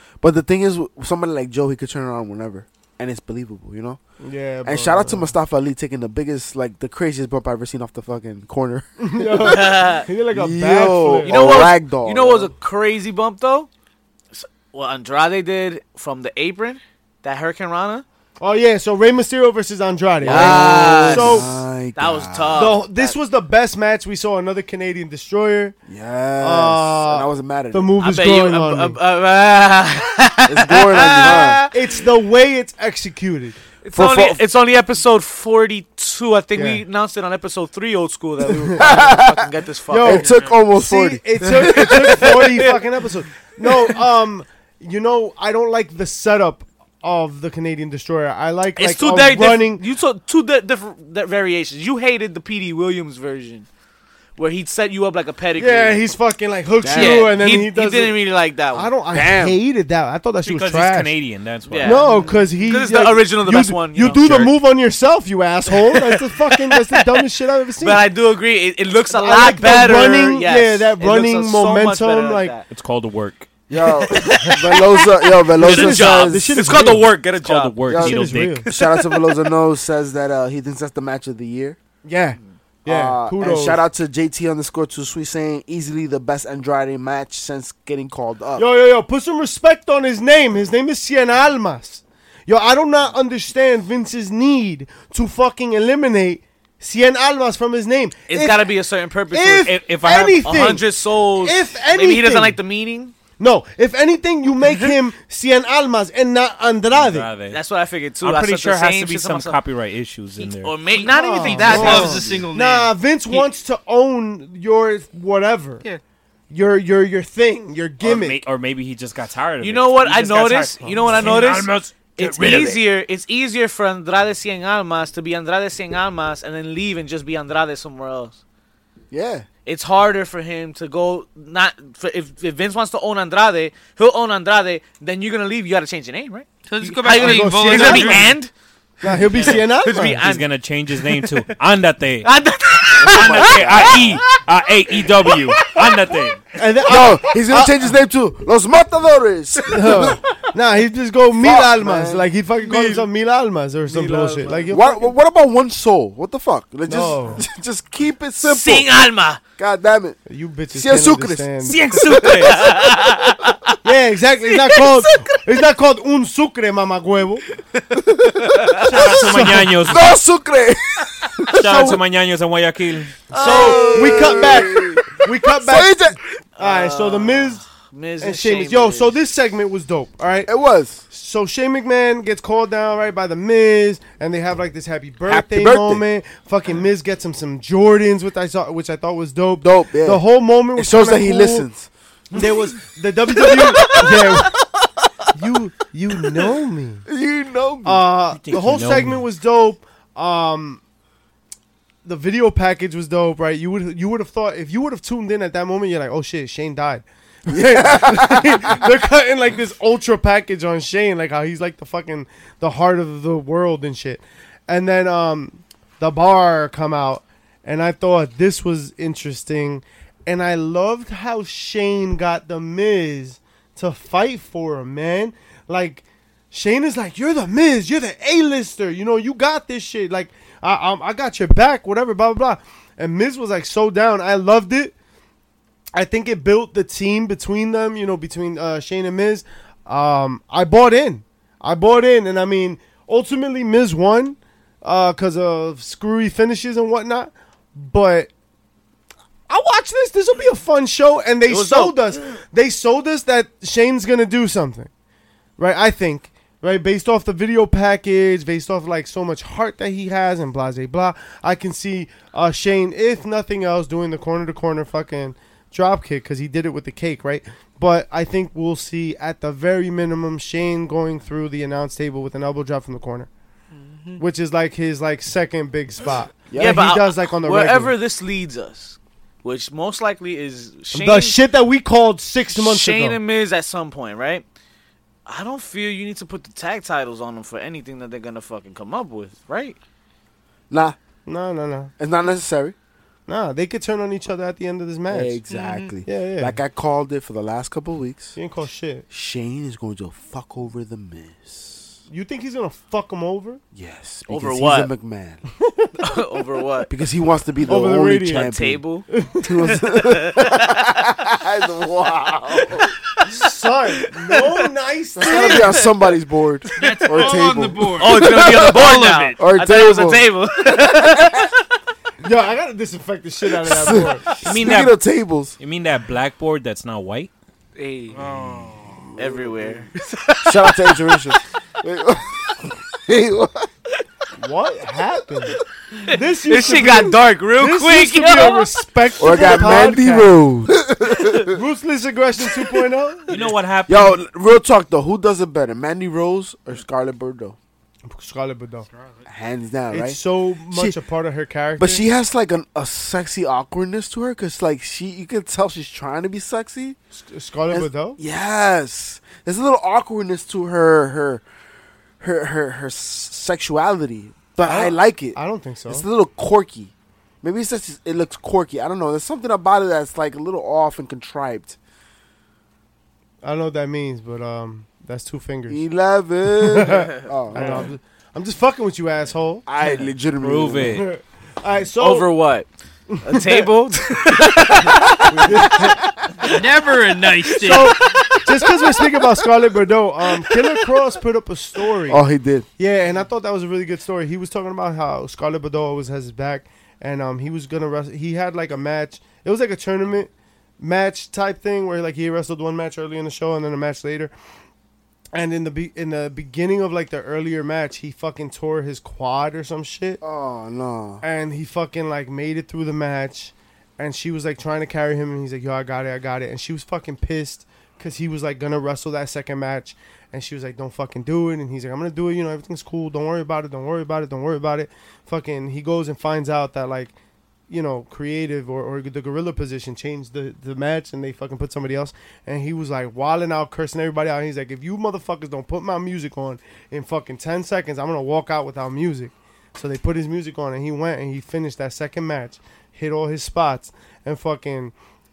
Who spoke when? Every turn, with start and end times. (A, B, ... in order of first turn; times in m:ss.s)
0:00.2-0:04.0 A
0:04.2-0:05.3 B
0:04.6-0:09.7 A
0:09.0-0:11.6 B
0:09.4-0:10.0 C
0:10.3-0:12.5 A
0:11.2-0:13.7 C
0:14.3-0:18.0 C
0:18.4-0:21.5 B
0:20.2-0:22.6 A
0:20.2-0:23.1 C
0:22.5-0:25.8 B
0:25.9-0:27.9 A
0:26.4-0:29.0 B
0:28.0-0:31.8 C
0:30.4-0:31.6 A
0:31.7-0:33.6 B
0:33.8-0:40.2 C
0:33.9-0:34.4 A
0:36.5-0:36.8 B
0:38.5-0:38.8 B
0:38.8-0:39.5 A
0:39.9-0:49.8 B
0:40.0-0:42.3 A
0:40.2-0:40.5 D
0:41.4-0:42.7 C
0:43.6-0:43.9 C
0:48.8-0:53.6 C
0:54.4-0:56.0 C
0:55.6-0:58.2 B
0:56.8-0:57.3 A
0:56.9-0:58.9 C
0:58.7-1:01.1 B
0:59.1-0:59.6 A
1:00.4-1:02.1 E
1:01.7-1:04.5 C
1:01.8-1:08.1 B
1:02.0-1:02.4 D
1:04.0-1:04.4 E
1:05.7-1:07.2 C
1:07.8-1:12.6 C
1:09.1-1:12.5 B
1:12.7-1:13.5 E
1:13.7-1:16.6 A
1:14.0-1:17.9 C
1:15.6-1:17.0 B
1:16.6-1:18.6 E
1:17.9-1:21.8 A
1:18.0-1:18.6 B
1:18.6-1:19.3 C
1:22.0-1:23.8 B
1:22.8-1:28.6 A
1:28.6-1:38.7 B
1:38.3-1:43.1 C
1:39.3-1:40.9 B
1:39.6-1:40.4 E
1:41.4-1:42.6 B
1:43.4-1:47.3 B
1:46.9-1:47.6 E
1:47.5-1:49.6 C
1:48.2-1:50.8 E
1:50.4-1:52.5 C
1:50.9-1:55.8 B
1:50.9-1:53.4 D
1:56.5-1:58.4 B
1:58.0-2:02.8 E
1:59.6-2:08.4 C
2:00.8-2:01.4 B
2:09.1-2:09.4 A
2:09.6-2:18.5 C
2:16.6-2:18.4 D
2:17.1-2:18.3 B
2:19.0-2:20.3 B
2:19.3-2:21.4 C
2:20.2-2:22.3 E
2:22.2-2:24.2 C
2:23.0-2:26.4 E
2:23.0-2:24.1 A
2:25.0-2:26.2 C
2:26.5-2:27.9 B
2:26.9-2:30.2 A
2:29.7-2:35.1 B
2:29.8-2:30.0 C
2:31.4-2:32.3 A
2:32.6-2:33.0 D
2:33.9-2:35.0 C
2:34.7-2:38.9 A
2:36.9-2:37.4 B
2:38.4-2:39.4 C
2:39.6-2:40.2 A
2:40.3-2:41.8 B
2:40.7-2:42.9 A
2:41.6-2:42.8 E
2:42.3-2:43.8 C
2:43.8-2:47.4 B
2:44.5-2:45.1 C
2:47.9-2:52.0 A
2:48.8-2:50.1 E
2:48.8-2:49.8 B
2:51.5-2:53.2 E
2:51.7-2:52.0 B
2:53.3-2:54.7 C
2:53.3-2:56.0 B
2:53.4-2:56.2 A
2:56.6-2:57.6 B
2:56.6-2:59.1 C
2:58.2-3:00.5 B
3:00.4-3:01.0 A
3:01.1-3:11.7 B
3:05.3-3:06.0 A
3:09.6-3:10.2 A
3:10.7-3:11.9 A
3:12.3-3:14.6 B
3:13.3-3:14.6 C
3:15.3-3:17.0 B
3:17.1-3:18.0 A
3:17.8-3:20.8 B
3:18.3-3:19.2 E
3:22.0-3:54.9 B
3:27.5-3:28.9 A
3:55.9-4:08.3 B
4:09.5-4:14.9 B
4:11.5-4:11.9 C
4:15.6-4:33.3 B
4:33.8-4:34.2 D
4:34.2-4:38.0 B
4:36.5-4:36.8 A
4:36.6-4:41.4 C
4:40.9-4:43.2 B
4:42.5-4:44.4 C
4:45.2-4:49.8 C
4:50.7-4:51.0 A
4:51.2-4:51.9 B
4:52.0-4:52.8 A
4:53.3-4:55.4 B
4:55.1-4:58.4 A
4:55.5-4:55.9 D
4:56.0-4:56.6 B
4:58.4-4:59.0 B
4:59.1-5:01.9 A
5:02.1-5:03.6 B
5:03.7-5:05.4 A
5:04.3-5:04.9 C
5:05.6-5:05.9 B
5:06.0-5:06.9 C
5:06.9-5:08.8 A
5:07.6-5:08.5 B
5:08.3-5:09.0 C
5:09.1-5:09.7 B
5:09.4-5:12.9 A
5:09.8-5:11.0 C
5:12.6-5:13.4 C
5:13.3-5:15.9 B
5:15.2-5:18.8 A
5:15.2-5:15.9 C
5:16.7-5:19.4 D
5:16.8-5:21.6 C
5:19.4-5:21.5 A
5:22.2-5:24.3 B
5:23.6-5:25.6 A
5:24.4-5:25.0 E
5:25.6-5:27.3 E
5:27.8-5:28.2 C
5:28.1-5:29.1 D
5:28.6-5:29.8 A
5:29.2-5:31.3 C
5:30.4-5:33.7 A
5:34.4-5:40.4 B
5:35.9-5:38.7 C
5:39.2-5:41.5 A
5:41.4-5:43.3 B
5:43.3-5:44.2 E
5:43.9-5:47.6 A
5:48.1-5:48.9 B
5:48.9-5:49.2 D
5:49.3-5:50.2 A
5:49.9-5:52.0 B
5:51.8-5:57.0 A
5:57.1-5:58.2 B
5:57.7-6:01.4 A
6:02.2-6:05.4 A
6:04.6-6:06.0 B
6:05.9-6:06.9 A
6:07.4-6:11.8 A
6:13.4-6:15.8 B
6:15.7-6:17.9 A
6:16.5-6:19.6 B
6:19.6-6:21.0 A
6:19.9-6:21.0 E
6:20.9-6:22.3 B
6:22.0-6:22.7 C
6:23.2-6:23.7 B
6:23.2-6:25.7 C
6:25.2-6:26.3 A
6:25.3-6:26.0 B
6:26.5-6:28.1 D
6:27.6-6:32.2 B
6:32.1-6:32.7 A
6:32.8-6:44.3 B
6:45.3-6:50.2 B
6:50.2-6:51.2 A
6:51.2-7:07.1 B
7:07.7-7:24.9 B